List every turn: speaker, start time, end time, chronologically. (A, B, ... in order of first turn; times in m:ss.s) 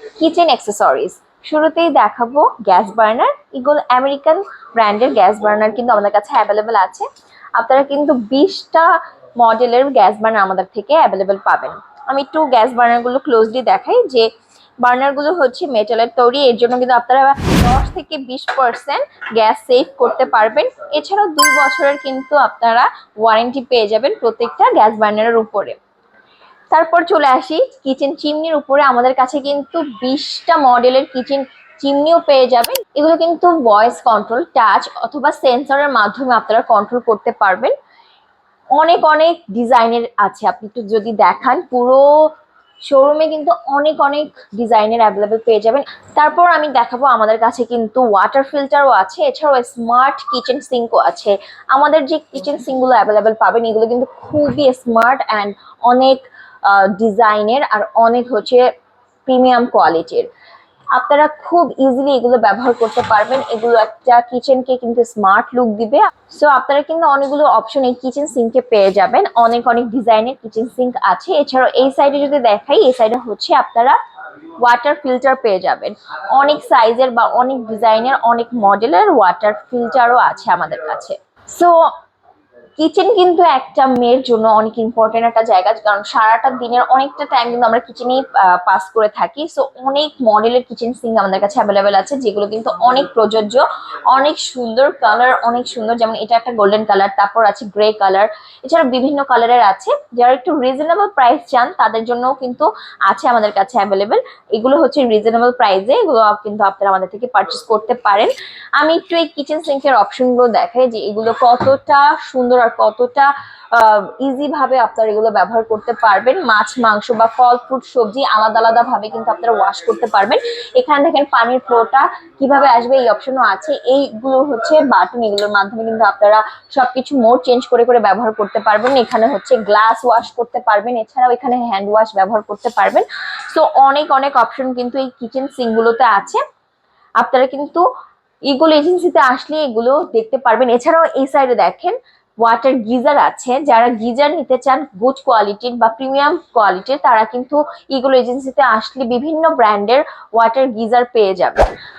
0:00.2-0:14.3 A
0:14.8-0:25.8 A
0:26.7-0:37.7 A
0:38.8-0:42.1 A
0:42.8-0:58.7 A
0:59.2-1:00.3 A
1:00.9-1:14.0 A
1:14.6-1:21.9 A
1:22.8-2:16.4 A
2:17.2-2:17.8 A
2:18.5-2:31.7 A